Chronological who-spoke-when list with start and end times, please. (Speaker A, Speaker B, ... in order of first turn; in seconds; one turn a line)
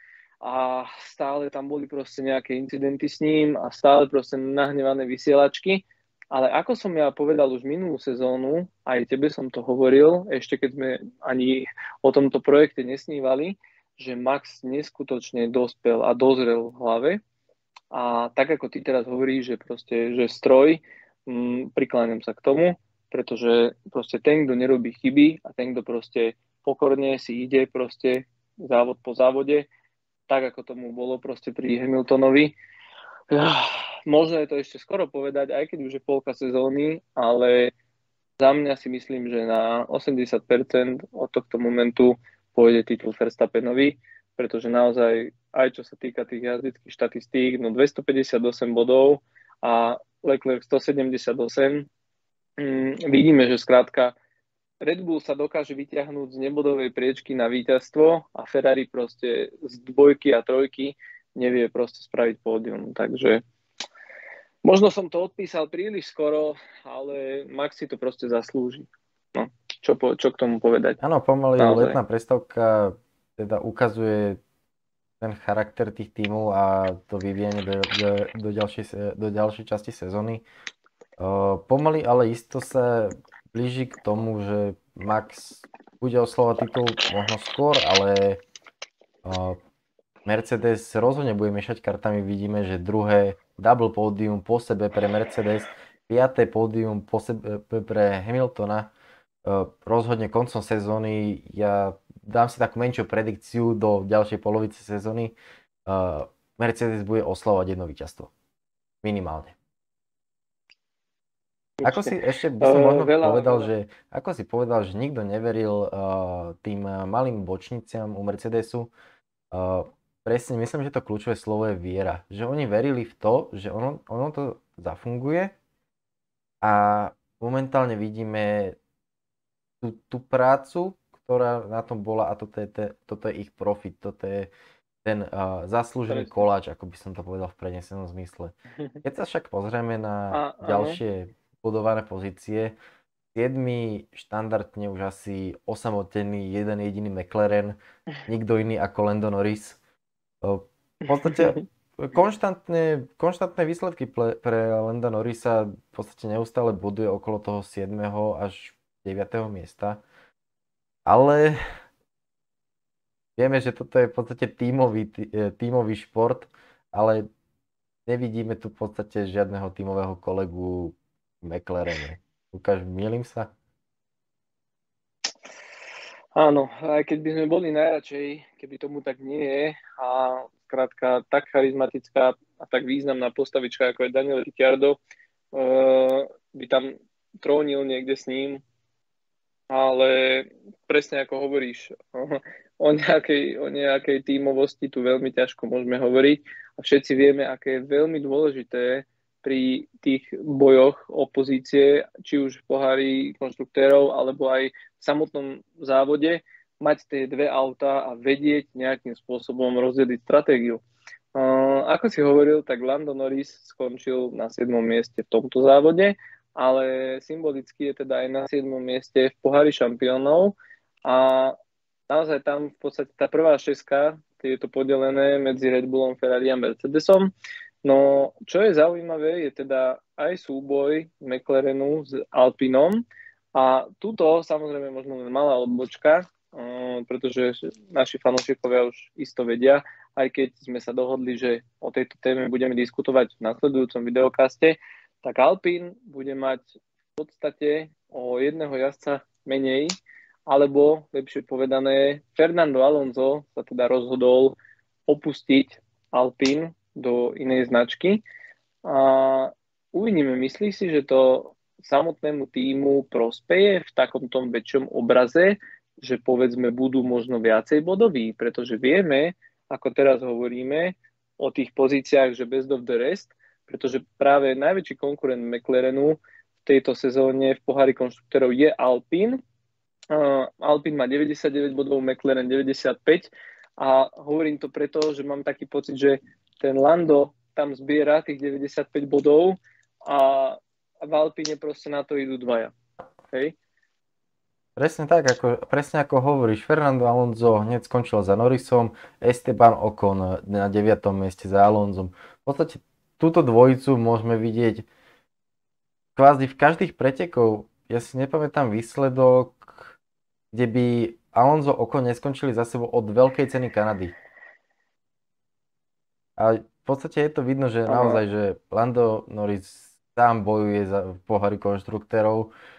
Speaker A: 0.4-17.2
Speaker A: 17.9-29.7
Speaker A: 30.3-32.6
Speaker A: 33.3-37.7
Speaker A: 38.4-51.9
Speaker A: 52.6-54.2
Speaker A: 54.8-63.4
Speaker A: 64.7-71.0
Speaker B: 71.0-74.4
Speaker A: 71.6-72.0
Speaker B: 75.2-80.4
Speaker B: 81.2-88.4
Speaker B: 89.2-89.6
Speaker B: 90.2-98.9
Speaker B: 99.5-108.3
Speaker B: 109.0-109.5
Speaker A: 111.8-113.7
Speaker B: 111.8-118.9
Speaker B: 119.5-125.5
Speaker B: 126.6-128.8
Speaker B: 129.8-134.5
Speaker B: 135.0-142.8
Speaker A: 136.1-136.4
Speaker A: 140.3-141.0
Speaker B: 143.3-149.8
Speaker B: 150.4-160.0
Speaker A: 151.3-151.6
Speaker B: 161.1-161.6
Speaker B: 163.4-167.3
Speaker B: 168.1-173.5
Speaker A: 176.3-185.0
Speaker A: 185.5-188.6
Speaker A: 189.7-210.8
Speaker A: 211.3-221.6
Speaker A: 222.1-227.3
Speaker A: 227.8-233.0
Speaker A: 233.6-249.9
Speaker A: 250.5-254.6
Speaker A: 255.1-258.2
Speaker A: 258.8-279.4
Speaker A: 280.1-292.7
Speaker B: 294.8-304.9
Speaker B: 306.2-310.0
Speaker B: 310.5-314.2
Speaker B: 316.4-322.5
Speaker A: 317.9-318.2